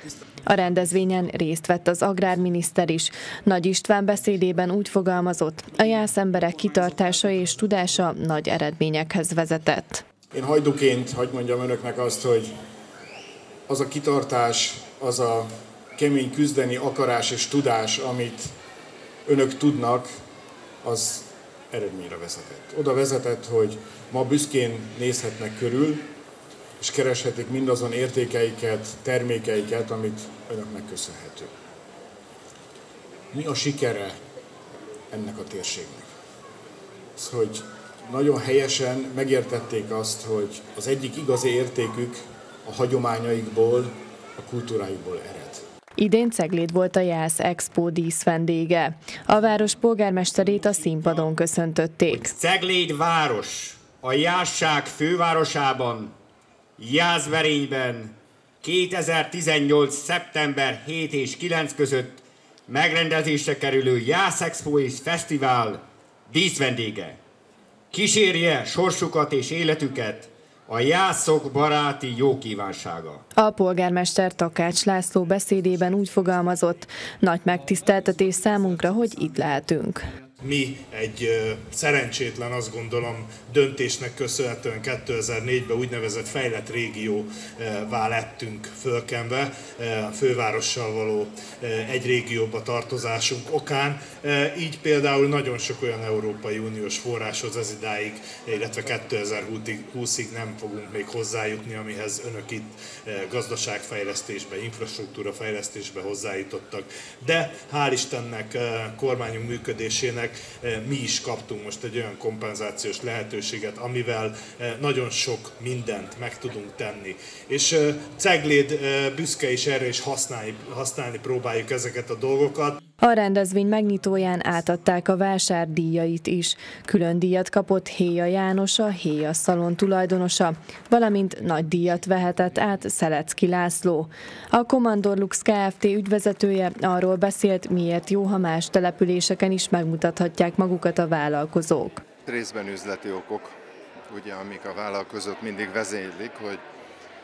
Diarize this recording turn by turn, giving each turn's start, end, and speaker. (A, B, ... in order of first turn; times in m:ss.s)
0:00.4-0:10.0 A
0:10.3-0:12.5 B
0:13.7-0:18.5 B
0:19.2-0:20.1 B
0:20.8-0:26.1 B
0:26.8-0:31.5 B
0:33.3-0:34.2 B
0:35.1-0:36.1 B
0:37.2-0:45.6 B
0:46.0-0:52.3 A
0:52.1-0:56.1 C
0:56.8-1:07.2 C
1:07.9-1:13.2 C
1:13.4-1:20.0 A
1:20.4-2:02.8 D
2:03.0-2:22.0 A
2:22.2-2:23.5 E
2:24.1-2:26.6 E